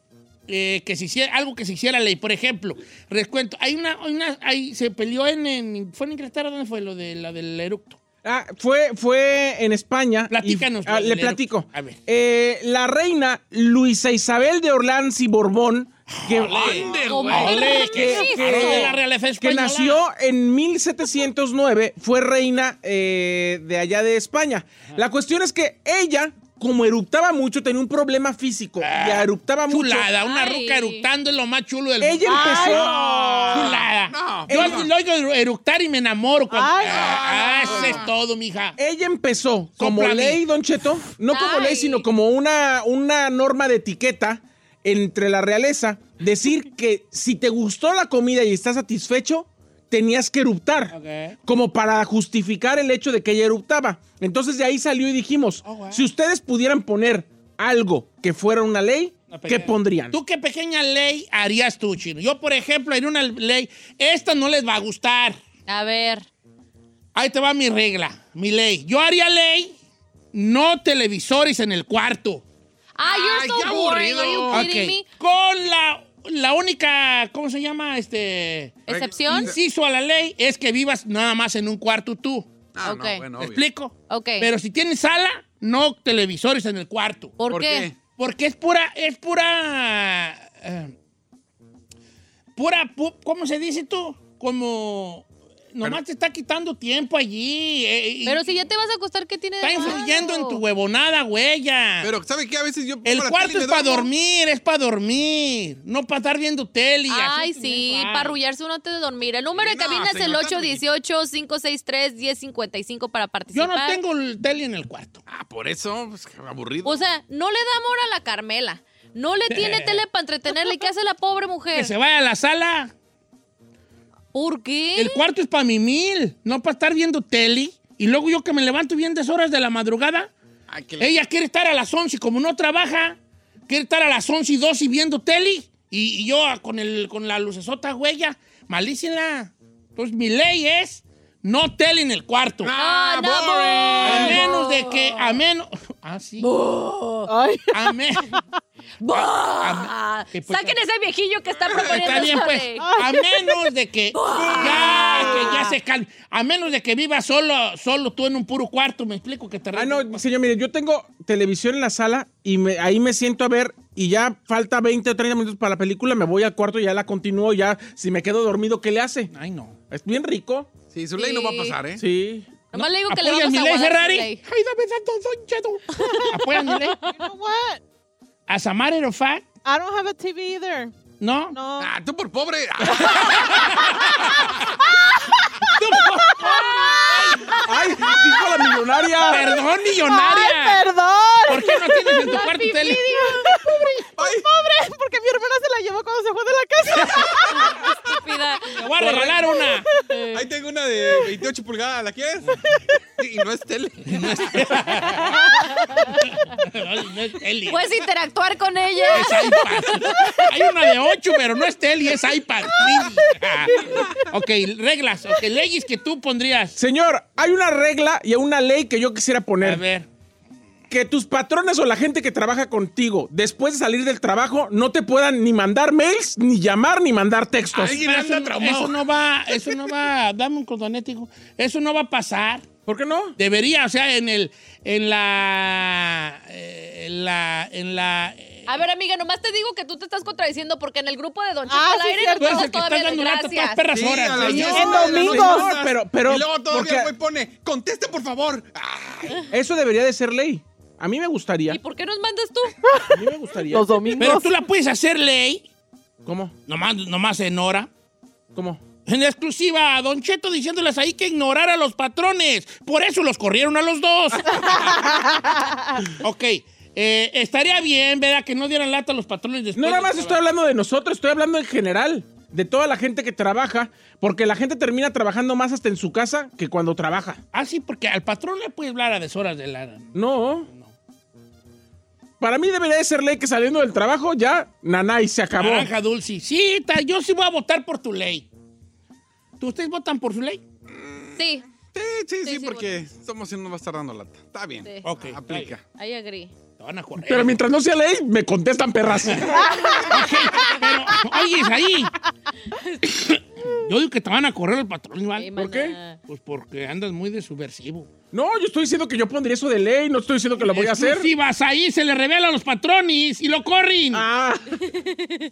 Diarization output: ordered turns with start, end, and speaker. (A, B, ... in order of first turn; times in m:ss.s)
0:00.5-0:08.0 A
0:08.2-0:30.1 B
0:10.3-0:12.0 A
0:16.1-0:20.0 A
0:16.4-0:17.8 C
0:16.8-0:19.0 D
0:28.8-0:38.8 A
0:30.2-0:31.1 D
0:32.0-0:33.0 B
0:32.2-0:33.7 E
0:33.5-0:33.9 B
0:33.9-0:34.9 C
0:34.5-0:34.9 B
0:36.5-0:37.3 E
0:36.8-0:38.1 C
0:37.7-0:38.0 B
0:38.8-0:50.9 B
0:39.8-0:40.4 A
0:41.3-0:42.1 D
0:50.9-0:51.4 A
0:51.4-1:00.2 B
0:55.6-0:56.1 A
0:59.3-1:05.4 A
1:05.7-1:06.3 D
1:07.2-1:09.8 A
1:10.3-1:12.4 A
1:13.0-1:15.1 D
1:13.0-1:14.7 C
1:14.5-1:22.5 A
1:18.9-1:19.6 D
1:18.9-1:19.6 C
1:22.7-1:23.6 C
1:22.8-1:23.2 D
1:23.4-1:27.4 A
1:24.1-1:24.5 D
1:27.4-1:27.9 D
1:27.5-1:28.0 C
1:28.1-1:31.0 A
1:32.6-1:38.6 A
1:38.2-1:40.6 D
1:39.6-1:42.1 A
1:42.0-1:44.1 C
1:43.0-1:48.4 A
1:47.1-1:54.0 D
1:49.5-1:50.8 C
1:53.5-1:55.2 A
1:55.3-1:57.0 C
1:56.8-2:01.9 D
1:59.5-2:00.0 A
2:01.7-2:02.9 A
2:04.3-2:05.2 D
2:05.0-2:10.3 A
2:10.7-2:11.2 C
2:11.0-2:22.7 A
2:22.6-2:24.4 C
2:22.8-2:25.4 D
2:24.0-2:26.5 A
2:24.1-2:24.4 B
2:26.4-2:27.3 D
2:27.3-2:28.0 E
2:27.7-2:28.3 A
2:29.0-2:32.9 D
2:29.1-2:30.8 A
2:31.6-2:32.3 C
2:31.7-2:40.2 A
2:32.8-2:33.7 E
2:34.2-2:35.8 D
2:34.5-2:35.6 E
2:39.7-2:49.3 B
2:49.3-2:49.8 A
2:49.9-2:50.7 B
2:50.9-2:52.0 C
2:51.2-2:51.8 D
2:52.0-2:52.5 B
2:52.7-2:54.4 D
2:52.8-2:57.0 A
2:56.0-2:56.9 D
2:57.0-2:57.8 E
2:58.5-2:59.5 A
2:59.6-3:01.0 E
3:01.2-3:01.6 A
3:01.5-3:01.9 E
3:01.8-3:04.5 C
3:03.0-3:03.3 E
3:03.4-3:04.2 A
3:05.7-3:07.8 A
3:05.8-3:17.8 E
3:07.6-3:09.5 B
3:09.2-3:10.9 A
3:11.5-3:14.1 A
3:12.0-3:13.4 D
3:14.2-3:14.5 C
3:16.9-3:17.4 A
3:17.5-3:18.8 D
3:18.7-3:19.9 A
3:18.9-3:19.5 B
3:19.6-3:20.4 E
3:20.3-3:22.6 C
3:21.0-3:21.4 E
3:23.2-3:24.8 C
3:24.1-3:25.6 A
3:26.5-3:28.0 A
3:27.6-3:30.6 D
3:29.1-3:36.8 A
3:36.8-3:39.8 B
3:39.6-3:40.1 A
3:40.9-3:48.0 B
3:47.7-3:49.8 C
3:47.8-3:52.7 A
3:52.8-3:53.4 B
3:53.4-3:58.8 A
3:58.7-4:03.9 D
4:01.7-4:02.7 E
4:02.4-4:05.2 A
4:03.9-4:09.4 C
4:04.5-4:07.1 B
4:04.6-4:05.7 E
4:09.5-4:11.8 B
4:11.7-4:13.0 D
4:12.9-4:14.6 E
4:13.1-4:14.3 B
4:14.2-4:15.6 A
4:16.2-4:16.6 B
4:16.7-4:17.9 A
4:18.5-4:18.8 B
4:19.0-4:25.0 A
4:26.2-4:30.4 A
4:29.8-4:37.4 B
4:37.5-4:40.9 A
4:40.2-4:40.7 B
4:42.4-4:45.9 B
4:45.6-4:48.5 A
4:49.6-4:50.6 A
4:50.9-4:55.8 C
4:51.4-4:51.6 D
4:52.4-4:53.0 D
4:55.0-4:55.7 A
4:56.0-4:56.5 D
4:56.8-4:57.6 A
4:57.2-4:59.8 B
4:59.2-5:02.1 A
4:59.6-5:00.2 E
5:03.0-5:05.5 A
5:05.4-5:06.2 D
5:05.6-5:06.0 B
5:06.3-5:08.1 A
5:08.3-5:11.3 B
5:10.6-5:14.3 A
5:14.1-5:14.8 B
5:15.0-5:15.4 D